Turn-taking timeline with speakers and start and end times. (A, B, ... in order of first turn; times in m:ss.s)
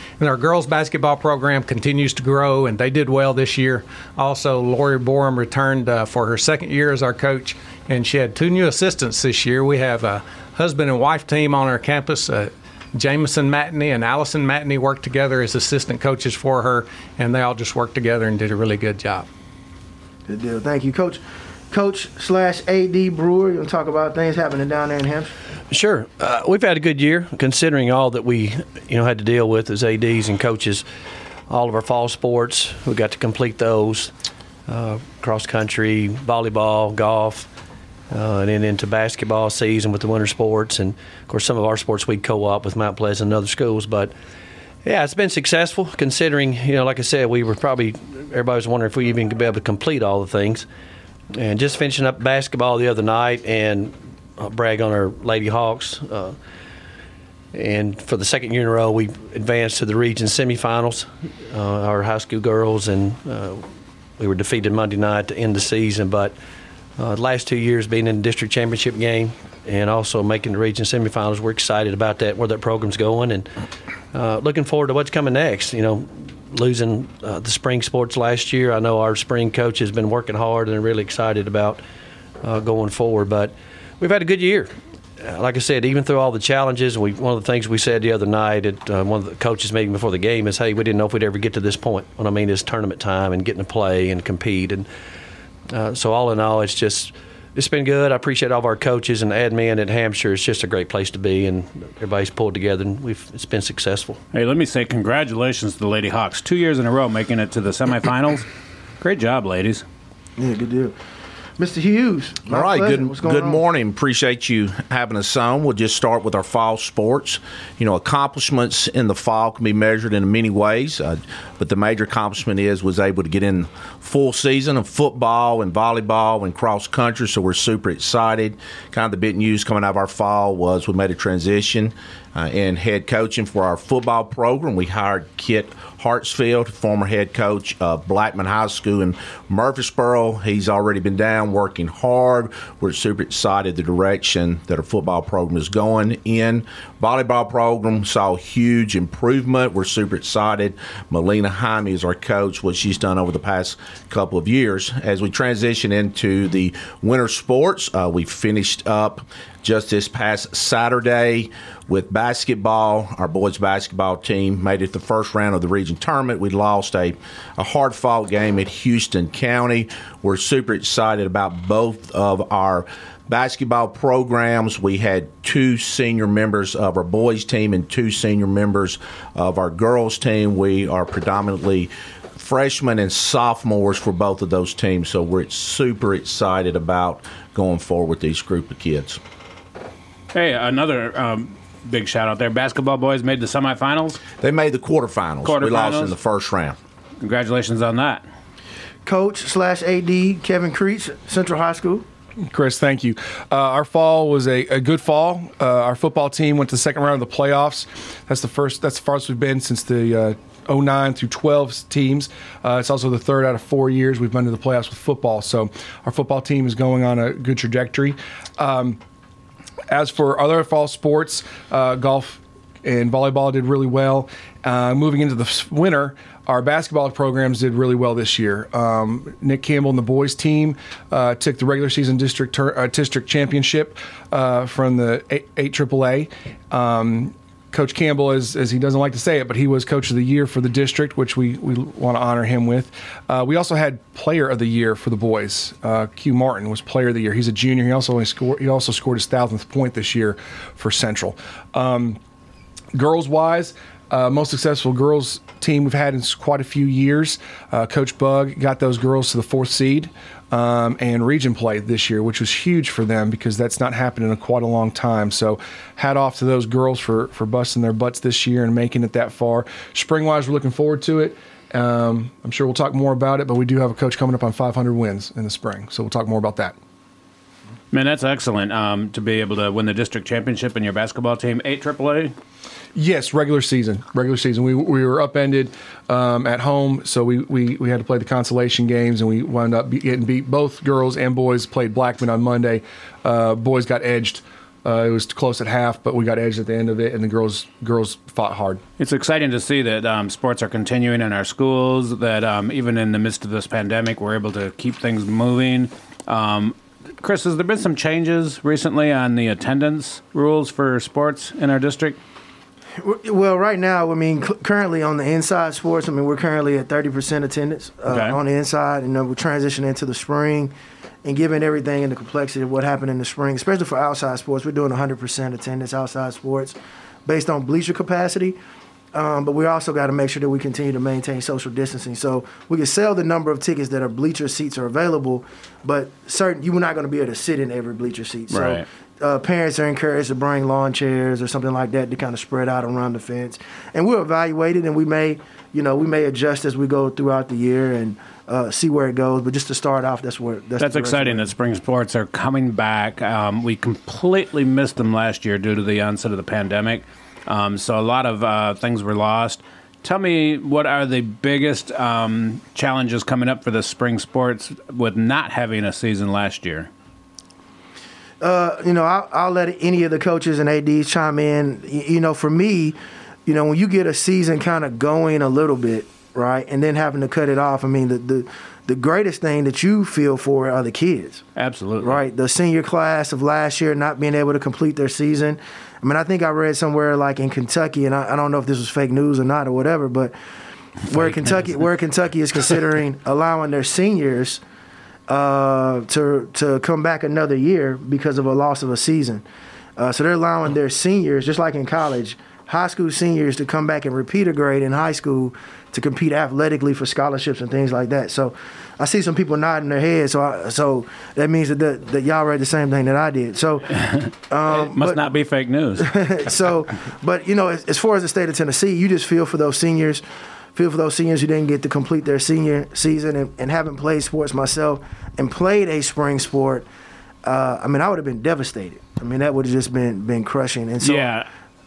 0:00.2-0:19.3 A
0:20.3-0:25.3 B
0:25.7-0:30.8 C
0:31.5-0:34.1 C
0:34.7-0:37.5 C
0:38.1-0:44.1 C
0:44.8-0:50.7 C
0:51.3-0:56.4 C
0:57.5-1:06.4 C
1:07.0-1:13.5 C
1:14.1-1:21.8 C
1:22.4-1:34.9 C
1:35.7-1:44.2 C
1:44.3-1:48.5 D
1:49.0-1:49.8 D
1:50.4-1:50.9 B
1:51.6-1:53.6 B
1:52.5-3:09.2 E
3:10.3-3:14.2 D
3:14.4-3:16.8 E
3:15.4-3:16.1 D
3:17.2-3:18.2 D
3:19.0-3:22.0 B
3:22.4-3:39.0 F
3:39.9-4:12.2 F
4:12.9-4:36.8 F
4:37.9-4:42.3 D
4:42.9-4:58.8 F
4:59.0-5:12.2 D
5:13.0-5:20.7 B
5:18.1-5:18.4 D
5:21.2-5:28.6 B
5:29.1-5:51.5 B
5:38.5-5:38.8 D
5:50.8-6:06.9 D
6:08.4-6:21.4 B
6:21.6-6:22.2 D
6:22.0-6:30.3 B
6:31.0-6:34.6 B
6:35.3-6:39.4 B
6:40.0-6:55.2 B
6:54.1-6:56.1 D
6:56.0-7:00.2 B
7:00.7-7:06.8 B
7:07.4-7:11.3 B
7:11.0-7:11.5 D